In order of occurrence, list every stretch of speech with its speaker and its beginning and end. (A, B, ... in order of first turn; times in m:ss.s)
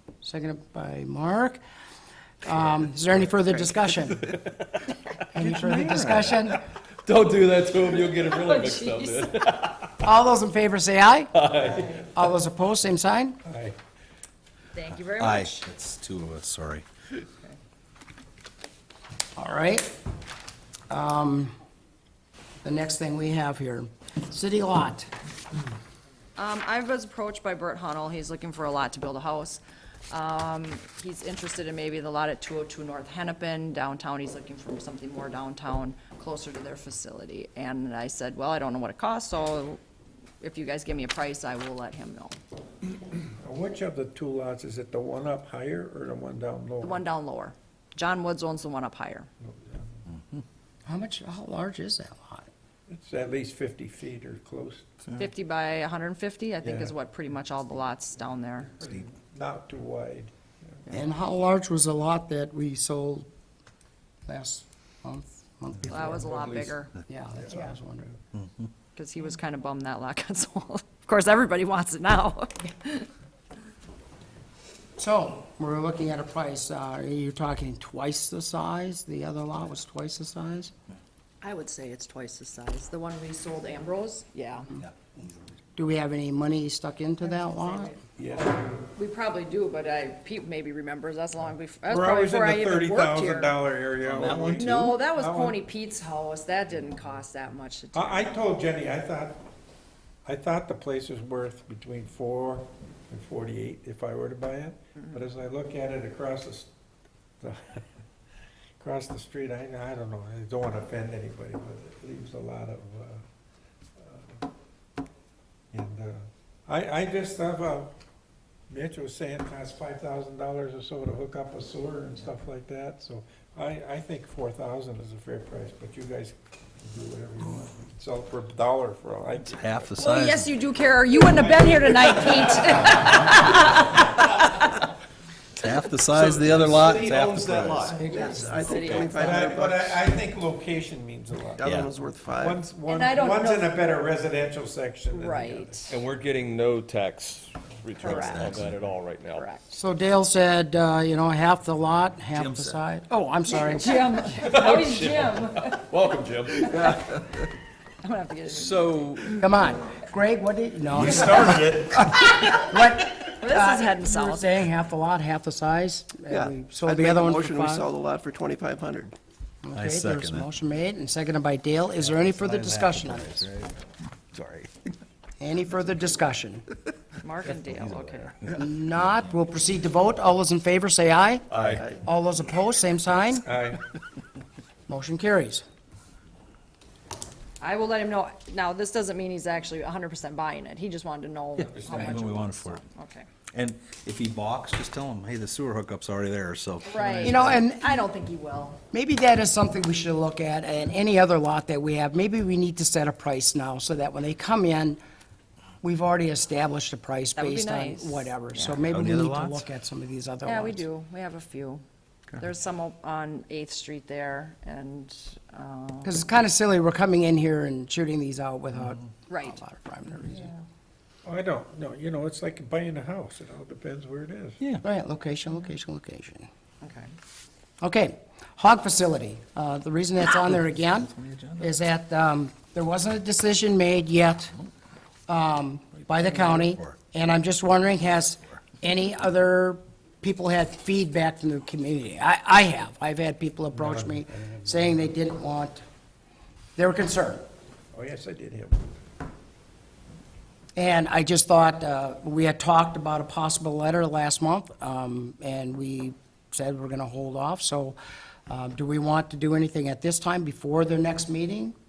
0:00.2-0:01.6 A
0:02.4-0:04.3 A
0:03.9-0:04.6 B
0:05.3-0:06.6 A
0:05.5-0:05.9 B
0:07.0-0:09.9 B
0:08.1-0:09.3 C
0:10.0-0:11.3 A
0:11.3-0:11.9 B
0:11.9-0:13.4 A
0:13.4-0:13.8 D
0:14.7-0:15.7 C
0:14.9-0:16.8 E
0:19.4-0:19.9 A
0:20.9-0:21.5 A
0:22.6-0:25.1 A
0:26.4-0:39.8 C
0:40.4-0:42.4 C
0:43.4-0:47.0 D
0:46.8-0:49.3 C
0:49.4-0:49.9 D
0:50.8-0:52.5 A
0:52.9-0:55.1 D
0:55.2-0:58.7 C
0:56.6-0:56.9 D
0:58.8-1:00.9 D
1:00.9-1:03.3 A
1:04.3-1:06.3 A
1:05.9-1:06.9 C
1:05.9-1:06.7 D
1:07.0-1:08.1 A
1:08.4-1:08.7 E
1:08.9-1:13.1 C
1:15.0-1:20.7 A
1:21.4-1:24.7 C
1:24.8-1:25.1 E
1:25.8-1:28.0 A
1:27.2-1:33.5 C
1:28.2-1:28.8 D
1:31.9-1:35.6 D
1:34.0-1:35.0 E
1:34.5-1:38.4 C
1:37.9-1:39.4 D
1:40.2-1:46.7 D
1:47.4-1:47.9 D
1:48.8-1:53.2 D
1:54.0-1:54.4 D
1:55.7-1:57.9 D
1:58.7-2:09.9 D
2:09.4-2:10.5 E
2:10.0-2:14.0 C
2:12.0-2:12.9 D
2:15.6-2:18.1 E
2:16.4-2:20.0 F
2:18.1-2:19.5 C
2:19.1-2:21.7 D
2:21.6-2:22.6 F
2:21.6-2:21.9 E
2:22.3-2:26.0 D
2:22.8-2:23.9 C
2:25.1-2:25.9 C
2:25.9-2:29.4 B
2:28.0-2:28.6 C
2:28.0-2:28.8 E
2:29.3-2:29.6 C
2:29.7-2:34.0 A
2:32.3-2:32.8 E
2:33.5-2:35.8 C
2:34.4-2:37.1 B
2:36.6-2:37.0 C
2:38.0-2:38.8 C
2:38.6-2:39.4 B
2:38.8-2:39.2 E
2:39.3-2:47.9 A
2:40.9-2:42.0 E
2:43.4-2:44.6 C
2:46.3-2:49.1 F
2:49.6-2:53.4 A
2:49.7-2:50.5 E
2:52.0-2:53.7 E
2:54.3-2:54.9 E
2:55.4-2:56.6 A
2:57.2-2:58.3 C
2:57.4-2:59.2 E
2:58.5-3:01.4 A
3:01.5-3:01.9 E
3:02.0-3:03.5 A
3:03.4-3:03.8 D
3:04.9-3:05.6 A
3:07.6-3:13.3 C
3:11.6-3:12.8 E
3:11.7-3:12.4 D
3:11.9-3:12.1 A
3:13.5-3:17.6 E
3:16.8-3:18.8 C
3:17.2-3:18.0 A
3:18.9-3:25.0 A
3:25.8-3:30.8 A
3:27.4-3:28.8 C
3:28.8-3:29.6 E
3:30.4-3:31.8 C
3:32.4-3:36.2 C
3:36.0-3:40.5 A
3:39.3-3:39.6 C
3:40.3-3:40.6 C
3:41.2-3:44.6 D
3:44.8-3:46.5 A
3:46.8-3:47.1 C
3:47.8-3:54.5 A
3:50.9-3:51.7 E
3:55.3-4:05.8 A
3:56.0-3:57.0 E
4:03.7-4:05.1 D
4:06.8-4:07.4 A
4:07.9-4:08.9 D
4:10.8-4:18.0 A
4:18.5-4:21.7 A